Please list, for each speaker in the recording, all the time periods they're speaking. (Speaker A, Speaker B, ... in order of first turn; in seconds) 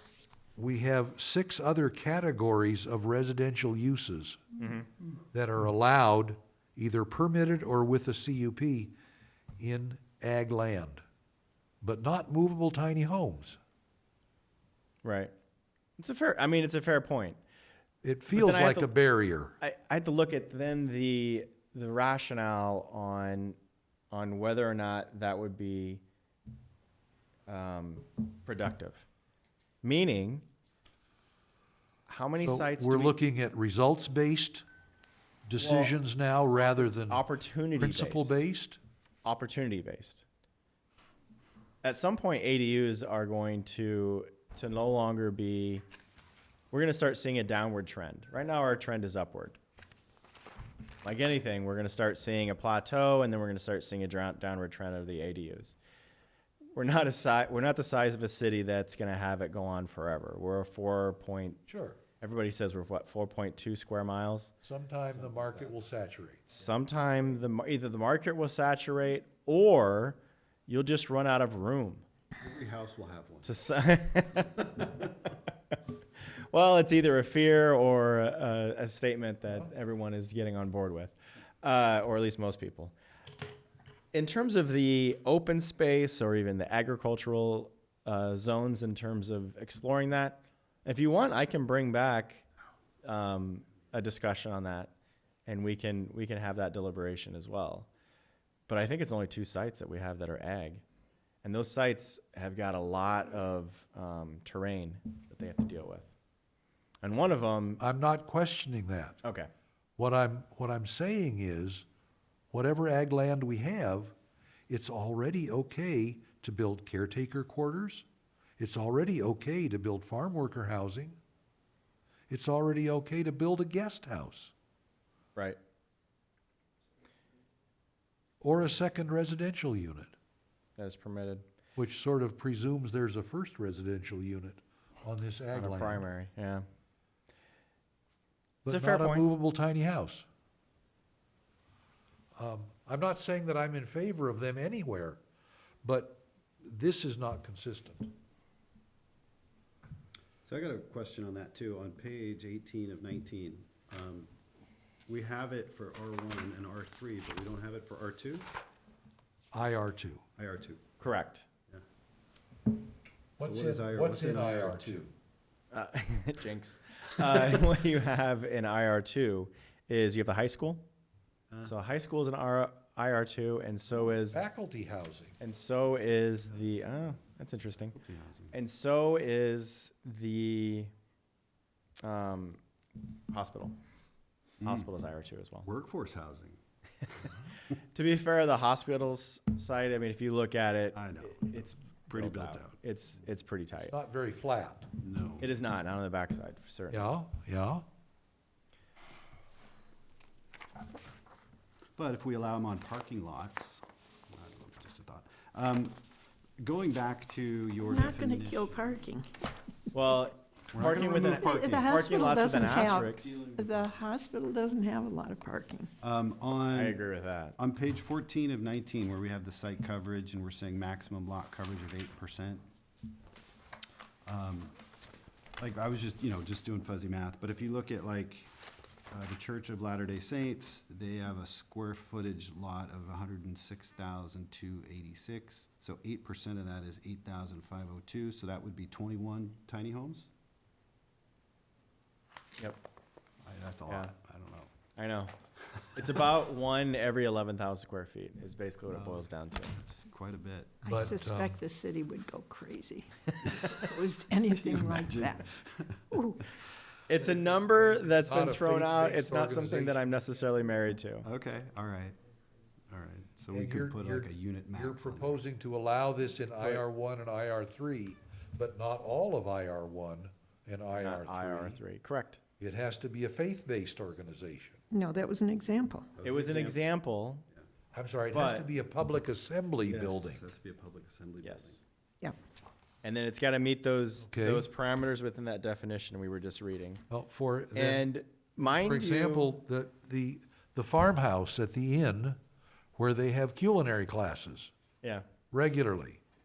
Speaker A: 0.6-4.4, 5.3-8.9, 9.6-11.0, 11.8-13.6, 18.0-19.6, 32.4-34.6, 35.5-37.2, 37.8-38.8, 61.7-62.0, 64.6-66.4, 107.8-109.2, 110.0-111.9, 112.5-114.2, 114.7-118.1, 118.6-121.2, 122.3-124.5, 128.4-130.2, 131.8-136.0, 138.7-140.3, 142.4-145.2, 145.8-148.1, 159.5-160.2, 163.4-165.1, 174.3-175.4, 193.8-194.9, 196.9-197.8, 250.9-251.6, 257.7-260.0, 263.5-271.8, 272.6-274.8, 277.9-280.4, 284.3-284.7, 287.1-292.4, 293.0-294.7, 295.5-296.2
Speaker B: 4.6-4.9, 15.0-15.3, 16.0-17.4, 18.3-18.9, 19.6-23.6, 24.1-26.0, 27.5-29.0, 29.8-30.4, 32.1-33.2, 35.6-36.0, 37.0-38.4, 39.2-40.2, 41.8-45.8, 46.7-49.6, 51.0-55.8, 56.8-61.6, 62.2-64.5, 66.5-72.0, 73.4-75.8, 76.5-82.9, 84.1-92.5, 93.0-94.9, 95.5-97.9, 98.7-100.8, 101.4-106.1, 107.0-107.8, 109.2-109.5, 130.8-131.4, 135.5-136.7, 138.7-139.3, 161.0-161.5, 165.7-170.8, 171.6-174.4, 175.4-178.0, 178.5-180.9, 182.0-182.6, 183.3-183.8, 184.6-185.7, 187.9-193.9, 195.4-197.2, 209.9-213.3, 216.7-217.6, 243.9-244.1, 245.0-245.3, 245.9-250.0, 257.1-261.3, 271.0-272.4, 276.2-277.4, 278.3-278.7, 281.4-281.8, 283.0-287.0, 287.7-289.6
Speaker C: 72.4-73.5, 150.5-154.3, 155.1-158.5, 160.4-160.8, 163.4-165.1, 177.9-178.6, 185.6-186.6, 190.9-191.5, 192.1-192.8, 195.0-195.5, 202.0-206.0, 206.6-209.0, 210.7-214.1, 216.0-217.0, 217.6-222.6, 224.2-224.7, 225.6-228.5, 229.1-240.3, 243.4-244.7, 248.9-249.3, 249.8-251.1, 254.6-256.1, 261.2-262.2, 262.9-265.4, 276.2-276.8, 279.9-281.8
Speaker D: 207.9-209.3, 210.8-215.9, 250.8-255.5, 256.1-256.5, 274.9-276.1